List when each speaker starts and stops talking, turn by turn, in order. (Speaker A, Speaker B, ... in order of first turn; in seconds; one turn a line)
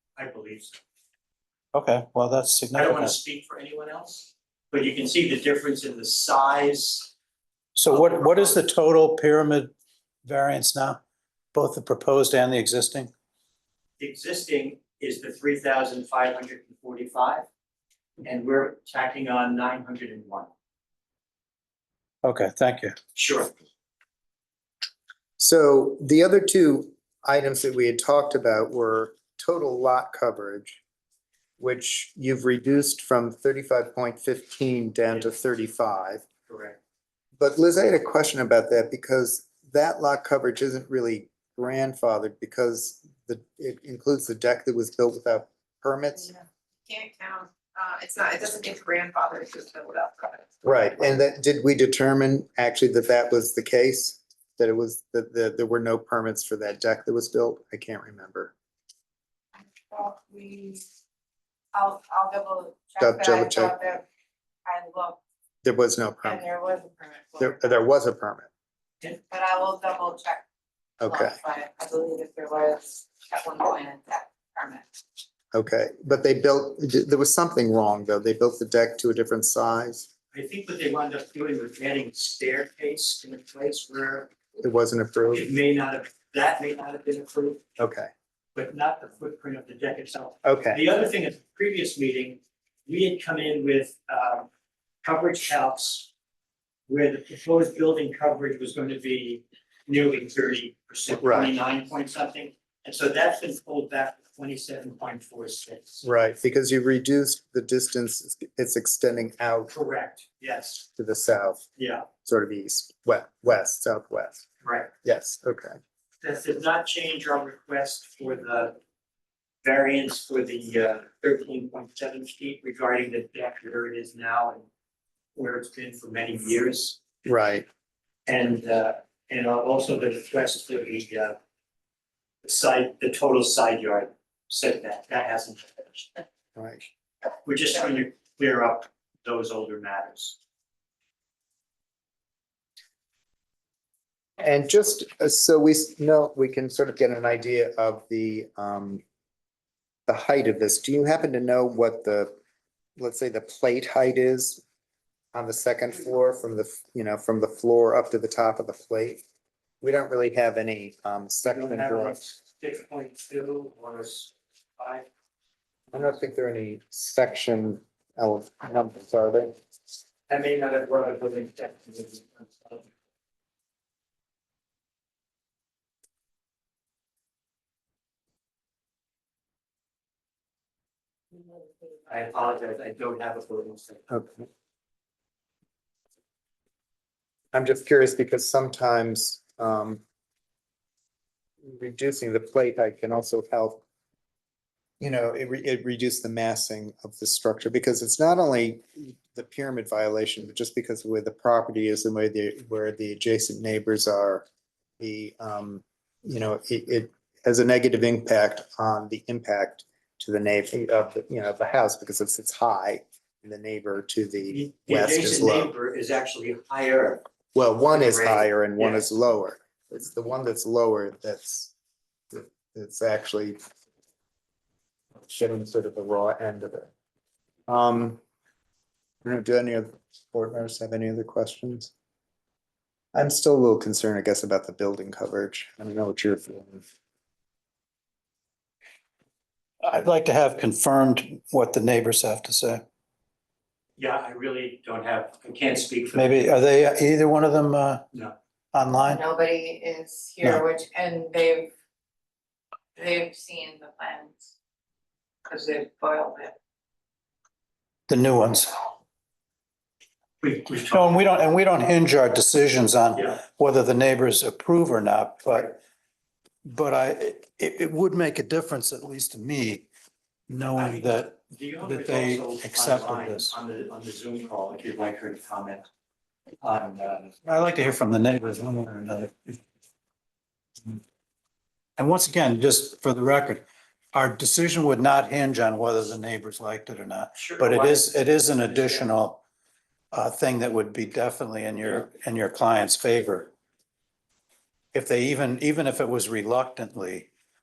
Speaker A: 0.2-0.8
Speaker B: 1.7-3.1
Speaker A: 2.7-7.1
Speaker B: 7.8-9.7
Speaker A: 7.9-8.6
Speaker B: 10.2-11.0
Speaker B: 11.5-13.1
Speaker A: 14.0-17.5
Speaker A: 18.2-20.5
Speaker B: 22.2-23.0
Speaker A: 23.1-23.5
Speaker C: 25.4-30.8
Speaker C: 31.6-36.2
Speaker A: 36.5-36.8
Speaker C: 37.4-46.4
Speaker D: 46.9-50.5
Speaker C: 50.6-58.5
Speaker D: 59.6-60.8
Speaker D: 61.7-64.0
Speaker C: 63.0-63.8
Speaker D: 64.7-65.2
Speaker C: 65.6-66.5
Speaker D: 66.2-67.7
Speaker C: 67.4-68.5
Speaker D: 69.3-70.5
Speaker C: 71.0-71.4
Speaker D: 71.0-75.0
Speaker C: 75.5-80.1
Speaker A: 80.3-84.3
Speaker C: 84.6-85.5
Speaker A: 85.3-87.6
Speaker C: 87.8-88.1
Speaker A: 88.5-94.5
Speaker C: 90.4-90.8
Speaker A: 95.0-96.1
Speaker A: 96.9-106.0
Speaker C: 101.2-101.5
Speaker C: 106.0-109.7
Speaker A: 109.7-110.8
Speaker C: 111.0-111.6
Speaker A: 111.8-112.1
Speaker C: 112.2-114.5
Speaker A: 114.6-114.9
Speaker C: 115.0-115.8
Speaker A: 116.2-118.8
Speaker A: 119.6-124.7
Speaker A: 125.3-127.0
Speaker C: 127.2-127.7
Speaker A: 128.3-131.4
Speaker A: 132.4-136.2
Speaker C: 136.6-136.9
Speaker A: 137.4-140.4
Speaker C: 144.4-149.0
Speaker C: 150.1-152.3
Speaker C: 153.0-154.6
Speaker C: 155.3-159.2
Speaker C: 159.8-162.2
Speaker A: 161.4-165.1
Speaker C: 165.9-169.6
Speaker A: 170.3-172.9
Speaker A: 182.1-184.2
Speaker C: 184.1-184.5
Speaker C: 187.5-190.0
Speaker C: 191.6-193.8
Speaker C: 195.0-204.4
Speaker C: 205.0-215.7
Speaker A: 214.5-217.2
Speaker C: 217.5-221.7
Speaker A: 217.9-219.1
Speaker C: 222.3-223.6
Speaker C: 225.2-226.9
Speaker C: 227.7-228.2
Speaker C: 229.2-231.9
Speaker C: 233.1-236.8
Speaker B: 239.8-242.8
Speaker A: 244.0-246.5
Speaker B: 246.2-248.1
Speaker B: 248.7-249.2
Speaker D: 249.0-251.7
Speaker D: 253.0-254.5
Speaker D: 255.4-256.6
Speaker B: 258.1-258.9
Speaker A: 260.4-261.2
Speaker B: 260.9-265.8
Speaker A: 263.1-263.4
Speaker B: 266.6-269.9
Speaker B: 270.5-273.6
Speaker A: 270.7-275.9
Speaker A: 276.6-277.3
Speaker B: 277.4-279.6
Speaker B: 282.0-289.4
Speaker A: 287.4-289.1
Speaker B: 290.1-293.5
Speaker B: 294.9-297.3